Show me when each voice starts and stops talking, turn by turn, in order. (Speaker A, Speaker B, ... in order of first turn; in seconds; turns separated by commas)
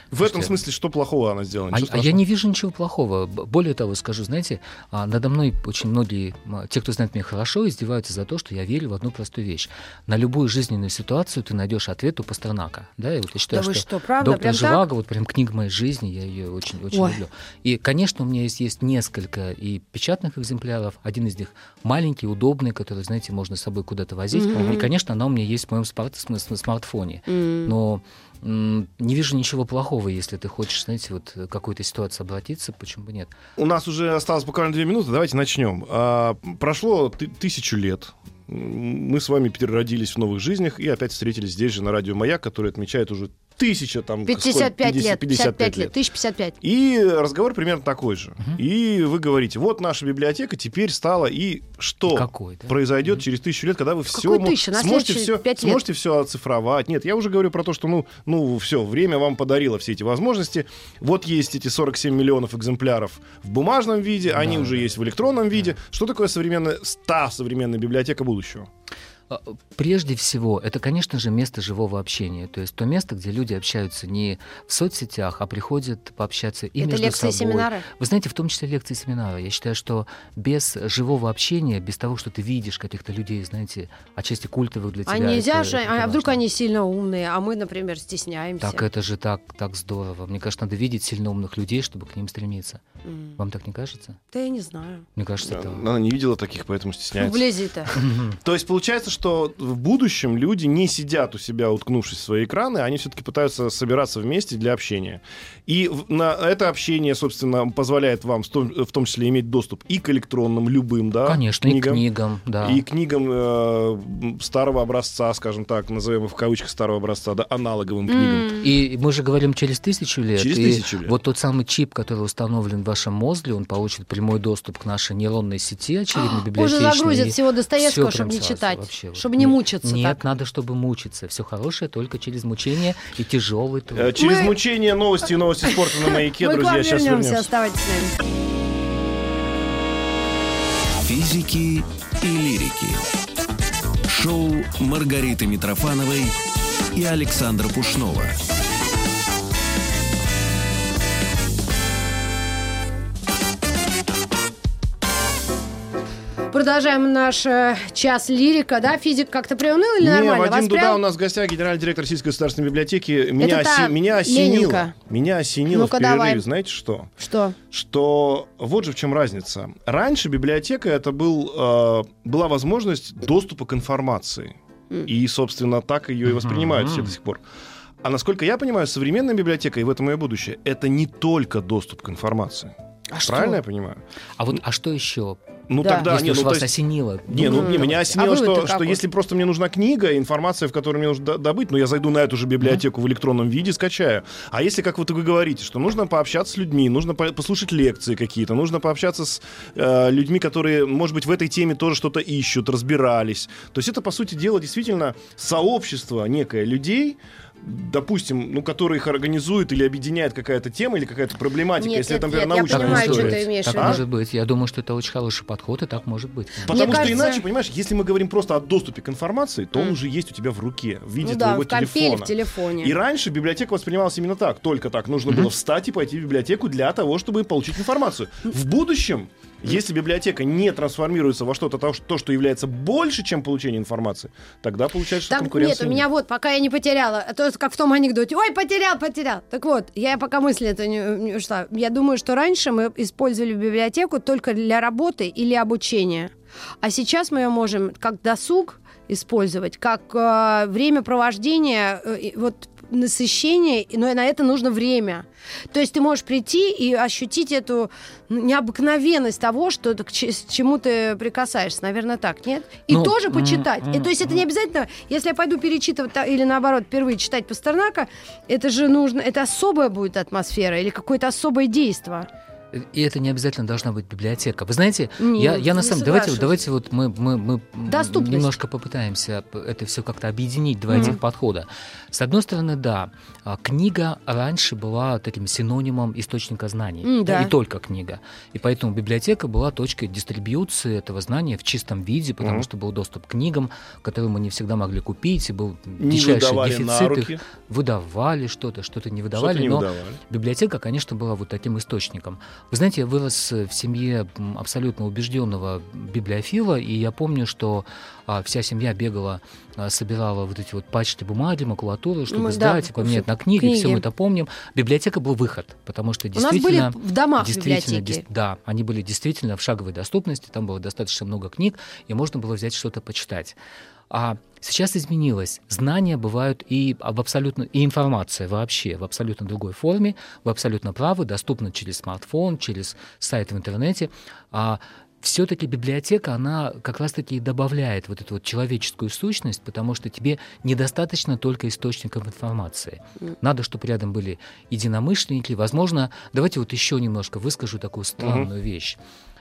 Speaker A: 0.1-2.2, Speaker B: 0.2-0.6, Speaker B: 1.7-33.3, Speaker C: 13.5-14.8, Speaker C: 16.9-17.2, Speaker C: 24.3-24.9, Speaker A: 24.5-24.8, Speaker C: 27.3-27.7, Speaker A: 33.6-45.9, Speaker C: 44.3-46.6, Speaker A: 46.6-68.7, Speaker B: 52.1-53.2, Speaker C: 54.1-55.8, Speaker B: 64.3-65.0, Speaker B: 69.3-86.4, Speaker C: 76.8-77.8, Speaker C: 85.1-88.8, Speaker B: 88.6-92.8, Speaker C: 93.0-93.4, Speaker B: 93.4-94.2, Speaker C: 94.3-95.1, Speaker B: 95.2-95.9, Speaker A: 95.4-112.0, Speaker C: 97.2-97.9, Speaker B: 97.9-98.4, Speaker B: 111.2-112.8, Speaker A: 112.6-118.6, Speaker C: 118.1-118.7, Speaker B: 118.6-134.2, Speaker A: 120.3-121.1, Speaker C: 126.1-130.2, Speaker A: 133.9-137.5, Speaker C: 134.2-134.6, Speaker C: 135.7-138.2, Speaker D: 141.0-143.1, Speaker D: 144.1-146.4, Speaker D: 146.9-148.4, Speaker C: 156.5-161.0, Speaker A: 160.0-167.1, Speaker C: 163.4-164.9, Speaker C: 165.7-166.4, Speaker C: 167.2-167.6, Speaker A: 167.7-177.4, Speaker B: 176.2-177.1, Speaker A: 178.0-184.0, Speaker C: 183.1-183.6, Speaker B: 184.4-188.1, Speaker A: 185.7-186.8, Speaker C: 185.8-186.1, Speaker A: 187.3-214.0, Speaker C: 187.4-189.0, Speaker C: 211.8-214.0, Speaker B: 212.7-217.2, Speaker C: 216.7-217.4, Speaker A: 216.7-236.1, Speaker C: 221.2-222.9, Speaker C: 235.3-272.3, Speaker B: 262.9-264.4, Speaker B: 272.7-323.6, Speaker C: 275.2-276.6, Speaker C: 277.9-278.6, Speaker C: 280.9-281.2, Speaker C: 287.0-287.5, Speaker A: 292.4-292.7, Speaker A: 296.0-297.4, Speaker A: 299.3-300.2, Speaker C: 312.3-314.0, Speaker C: 316.4-318.2, Speaker B: 324.1-349.0, Speaker A: 348.2-348.5